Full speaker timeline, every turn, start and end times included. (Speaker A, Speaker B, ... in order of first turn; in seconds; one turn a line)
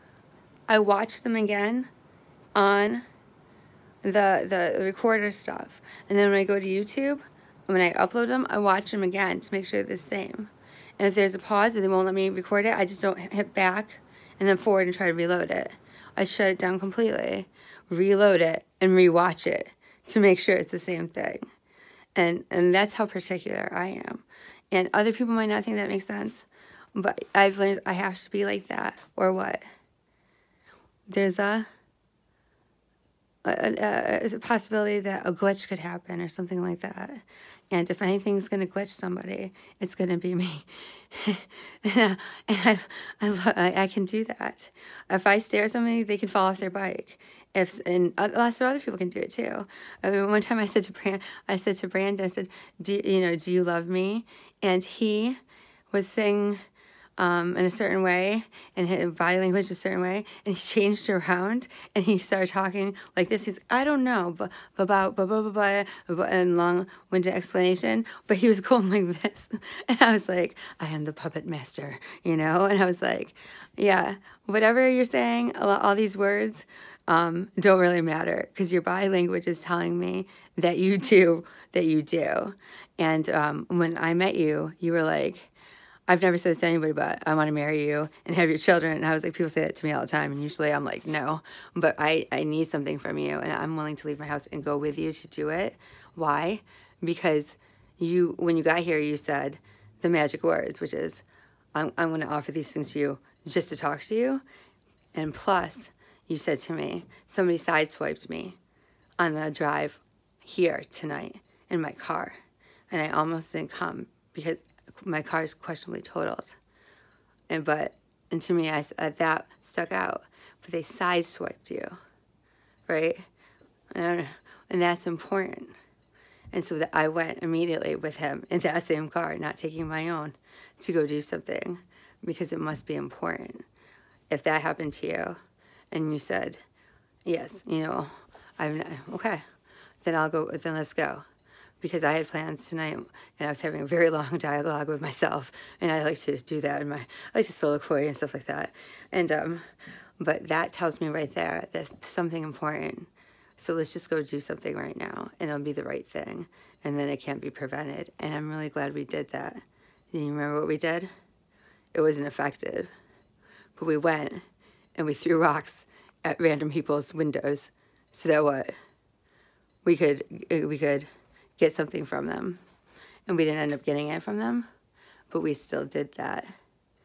Speaker A: 0.7-1.9
Speaker A: 2.5-3.0
Speaker A: 4.0-21.5
Speaker A: 22.2-29.6
Speaker A: 31.1-31.7
Speaker A: 33.5-55.4
Speaker A: 55.9-56.6
Speaker A: 57.2-85.5
Speaker A: 86.1-104.4
Speaker A: 105.2-108.6
Speaker A: 109.2-112.4
Speaker A: 112.9-116.6
Speaker A: 117.5-122.0
Speaker A: 122.9-123.2
Speaker A: 123.9-125.7
Speaker A: 126.5-133.7
Speaker A: 134.3-135.4
Speaker A: 135.9-136.6
Speaker A: 137.3-139.4
Speaker A: 140.0-141.2
Speaker A: 141.8-149.7
Speaker A: 150.2-161.1
Speaker A: 161.9-162.9
Speaker A: 163.8-164.4
Speaker A: 165.0-168.7
Speaker A: 169.8-171.1
Speaker A: 171.6-172.6
Speaker A: 173.3-174.7
Speaker A: 175.3-176.5